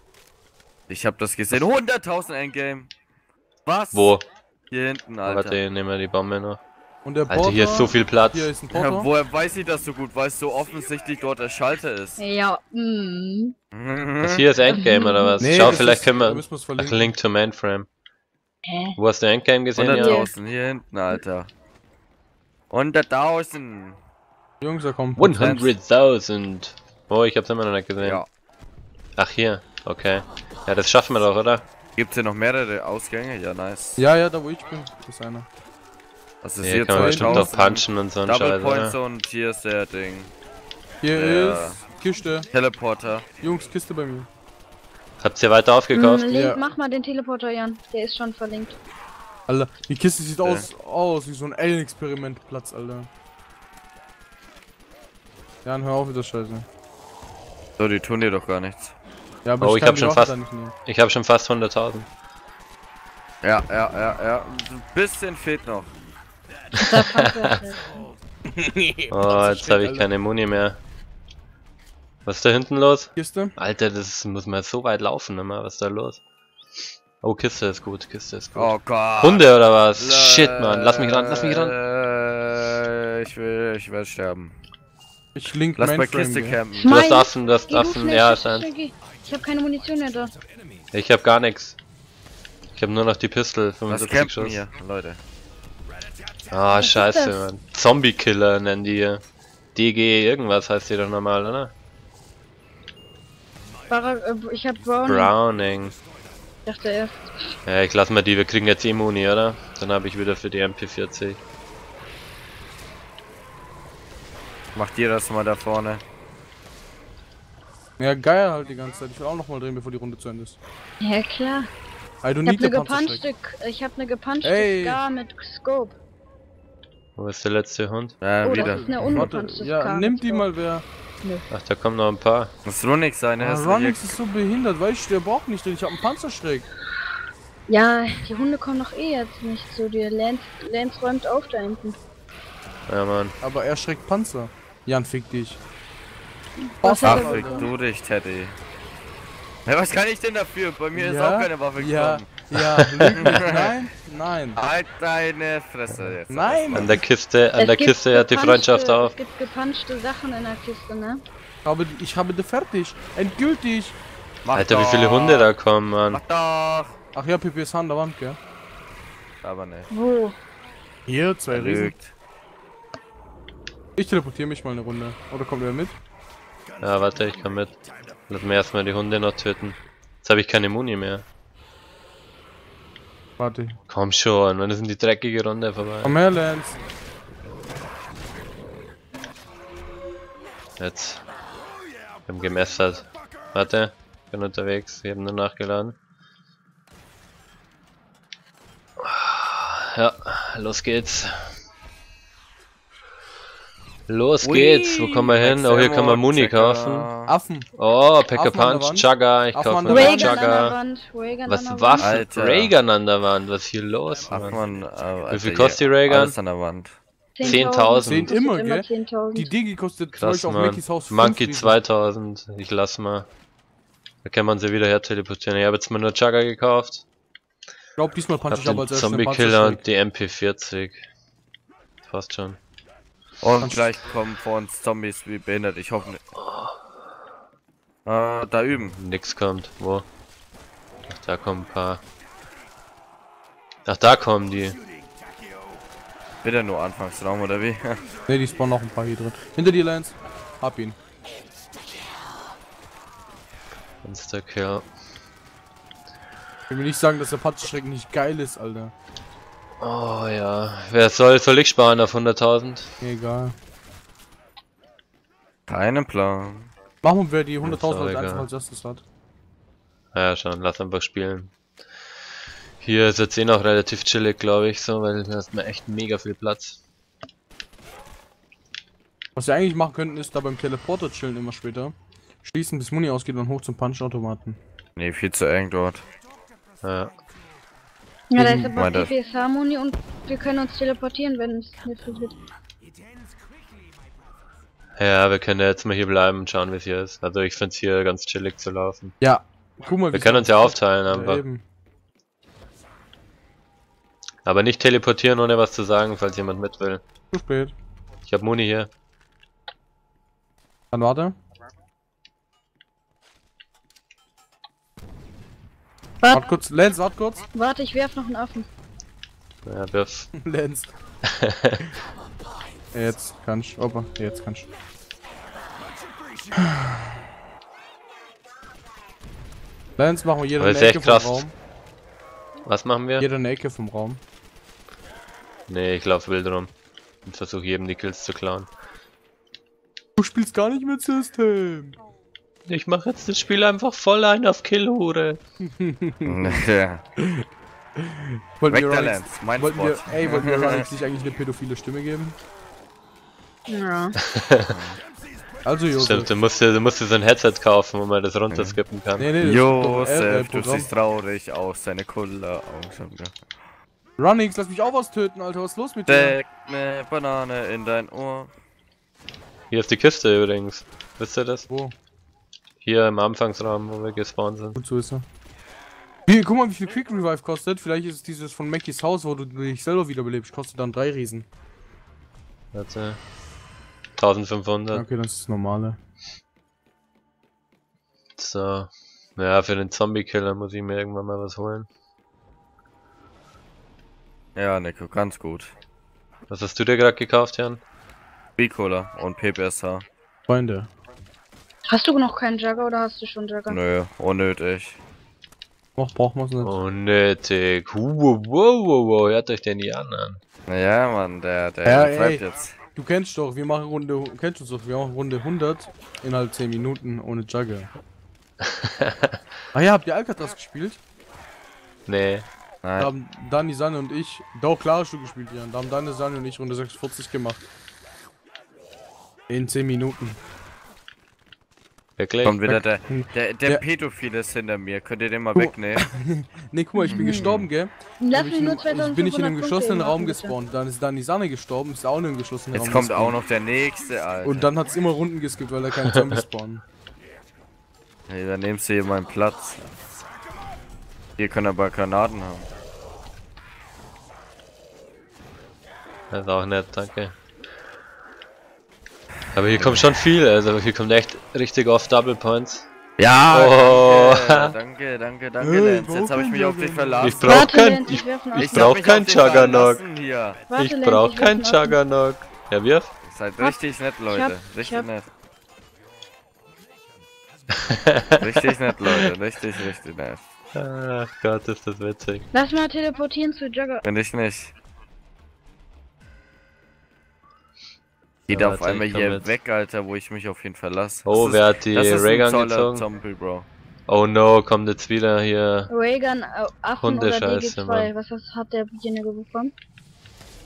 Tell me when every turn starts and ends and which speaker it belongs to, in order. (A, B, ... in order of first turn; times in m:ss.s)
0:00.9-0:02.9 A
0:03.6-0:04.2 A
0:03.9-0:04.2 B
0:04.7-0:05.6 A
0:05.2-0:06.6 B
0:07.0-0:09.1 C
0:07.3-0:08.5 B
0:07.6-0:07.9 D
0:08.7-0:12.2 A
0:12.2-0:13.5 D
0:13.7-0:14.4 A
0:14.2-0:17.9 B
0:14.7-0:15.7 D
0:15.4-0:17.1 C
0:18.6-0:19.0 D
0:19.0-0:20.2 B
0:19.8-0:21.5 A
0:19.9-0:20.3 D
0:22.7-0:24.0 A
0:24.6-0:25.6 C
0:25.2-0:28.2 B
0:25.4-0:25.7 A
0:28.0-0:28.3 A
0:29.2-0:31.6 B
0:32.0-0:34.0 A
0:34.0-0:35.5 C
0:36.4-0:40.3 A
0:36.6-0:39.0 B
0:36.9-0:37.5 C
0:41.0-0:42.5 C
0:41.1-0:41.8 A
0:42.5-0:43.2 A
0:43.4-0:44.3 C
0:45.2-0:46.3 B
0:45.9-0:48.8 D
0:46.3-0:46.6 C
0:49.5-0:53.1 C
0:55.6-0:56.7 C
0:57.8-0:58.9 A
0:59.4-1:00.7 C
0:59.6-1:02.1 B
1:03.4-1:05.9 A
1:06.7-1:07.9 D
1:06.8-1:07.3 B
1:08.5-1:10.1 C
1:09.1-1:10.8 B
1:12.2-1:16.2 B
1:13.2-1:13.5 C
1:17.2-1:21.8 B
1:18.6-1:24.5 A
1:25.3-1:26.6 C
1:25.8-1:26.9 A
1:26.7-1:30.3 D
1:26.9-1:28.7 B
1:30.9-1:31.8 B
1:32.7-1:34.6 B
1:33.9-1:35.2 A
1:36.5-1:39.2 B
1:36.7-1:37.4 D
1:39.7-1:41.7 B
1:43.9-1:45.3 D
1:45.0-1:46.0 B
1:46.6-1:47.6 D
1:47.6-1:51.4 B
1:54.7-1:56.0 A
1:58.0-2:00.6 C
2:01.0-2:01.7 D
2:02.2-2:03.2 C
2:02.4-2:06.0 D
2:04.4-2:05.0 C
2:07.2-2:08.2 B
2:08.2-2:08.9 A
2:08.4-2:10.4 D
2:08.4-2:10.8 C
2:11.5-2:12.5 B
2:12.6-2:14.2 A
2:13.4-2:16.7 C
2:17.7-2:22.0 D
2:22.9-2:23.3 B
2:23.4-2:25.6 C
2:26.6-2:27.7 D
2:26.8-2:27.7 C
2:27.0-2:28.6 A
2:29.6-2:32.3 A
2:30.9-2:34.6 C
2:32.5-2:33.4 B
2:33.2-2:33.8 A
2:34.6-2:37.0 A
2:36.3-2:37.0 C
2:36.7-2:39.1 B
2:37.6-2:41.2 D
2:41.6-2:44.0 C
2:44.4-2:45.5 A
2:44.5-2:46.2 B
2:46.1-2:47.0 A
2:47.1-2:48.4 C
2:49.4-2:49.9 A
2:49.9-2:50.4 D
2:51.1-2:51.9 C
2:51.5-2:52.1 A
2:54.0-2:56.0 C
2:56.8-2:57.8 B
2:58.3-3:01.2 B
3:03.4-3:03.8 C
3:03.9-3:06.2 B
3:06.0-3:06.8 C
3:10.8-3:11.2 B
3:12.3-3:16.0 B
3:19.0-3:21.6 B
3:24.1-3:27.1 B
3:24.4-3:27.3 A
3:27.3-3:27.7 C
3:27.8-3:30.8 B
3:28.3-3:30.4 C
3:29.9-3:32.2 D
3:31.4-3:34.6 B
3:32.0-3:32.7 A
3:34.3-3:37.0 A
3:35.3-3:36.4 B
3:37.4-3:39.5 D
3:37.4-3:38.3 B
3:37.5-3:41.8 C
3:40.1-3:43.3 B
3:44.2-3:47.0 B
3:48.0-3:49.8 C
3:48.5-3:51.0 B
3:52.0-3:52.6 B
3:53.4-3:56.2 A
3:53.6-3:53.9 C
3:56.4-3:56.8 B
3:58.0-3:59.0 A
3:58.9-4:00.0 B
4:01.1-4:02.0 B
4:03.8-4:04.8 B
4:06.4-4:08.1 A
4:08.2-4:11.0 C
4:14.0-4:14.9 B
4:16.7-4:18.9 C
4:19.8-4:22.9 B
4:23.0-4:23.6 C
4:25.7-4:26.7 A
4:27.0-4:29.0 C
4:27.6-4:28.5 B
4:30.1-4:31.5 B
4:32.8-4:36.8 B
4:39.4-4:44.6 C
4:45.0-4:46.0 A
4:46.8-4:47.1 B
4:48.3-4:52.4 D
4:48.4-4:48.7 C
4:48.7-4:49.1 A
4:55.0-4:59.1 B
4:59.2-5:01.6 C
5:00.1-5:01.4 B
5:04.4-5:07.0 B
5:07.3-5:07.7 C
5:08.2-5:08.9 B
5:10.9-5:11.4 C
5:16.3-5:17.4 C
5:17.5-5:18.7 D
5:19.6-5:20.3 B
5:20.3-5:20.9 C
5:21.3-5:21.8 B
5:22.9-5:24.7 C
5:30.0-5:31.5 C
5:30.6-5:31.4 B
5:32.6-5:33.3 B
5:33.2-5:34.2 C
5:35.7-5:36.7 B
5:37.2-5:38.7 B
5:40.2-5:42.0 C
5:42.7-5:45.4 B
5:45.6-5:46.6 C
5:46.2-5:47.0 A
5:47.2-5:47.4 C
5:48.0-5:52.4 C
5:48.7-5:50.8 A
5:53.7-5:54.2 D
5:54.2-5:54.8 B
5:54.7-5:55.0 A
5:55.6-5:56.3 C
5:55.9-5:59.3 B
5:58.5-5:58.8 A
5:59.2-6:00.9 C
5:59.4-6:03.4 A
6:04.2-6:06.4 C
6:06.1-6:08.5 A
6:09.7-6:11.6 B
6:11.7-6:11.9 C
6:12.8-6:14.8 B
6:14.8-6:15.2 C
6:16.3-6:21.5 C
6:22.7-6:23.2 B
6:24.2-6:25.0 B
6:24.9-6:26.0 C
6:28.4-6:31.9 B
6:34.6-6:35.7 A
6:36.5-6:37.8 B
6:38.6-6:40.0 A
6:40.5-6:40.9 C
6:41.9-6:43.8 D
6:43.7-6:45.0 A
6:46.0-6:46.7 C
6:46.6-6:50.4 B
6:50.7-6:52.8 A
6:51.8-6:57.9 C
6:58.6-6:59.4 B
6:59.7-7:01.0 C
7:02.1-7:02.5 B
7:02.8-7:03.1 A
7:03.0-7:07.6 C
7:09.5-7:10.4 C
7:12.2-7:12.6 B
7:12.4-7:16.0 A
7:12.6-7:13.8 C
7:15.5-7:23.4 C
7:16.9-7:17.6 D
7:17.1-7:17.4 A
7:18.2-7:20.6 D
7:22.7-7:24.7 A
7:24.4-7:26.8 C
7:28.3-7:29.9 A
7:31.4-7:32.7 A
7:36.3-7:37.3 B
7:39.5-7:42.9 B
7:43.2-7:47.6 A
7:43.5-7:44.8 B
7:45.6-7:47.6 C
7:47.2-7:50.0 B
7:47.5-7:48.9 D
7:48.5-7:50.6 A
7:50.7-7:52.0 D
7:50.8-7:53.1 B
7:53.2-7:55.3 A
7:54.3-7:55.1 D
7:57.8-7:58.5 B
7:58.4-8:00.4 A
8:00.7-8:02.5 B
8:02.5-8:04.0 D
8:04.0-8:04.7 A
8:08.5-8:13.6 A
8:08.5-8:09.5 B
8:11.2-8:13.0 B
8:14.1-8:15.9 B
8:15.9-8:19.7 D
8:17.0-8:18.1 B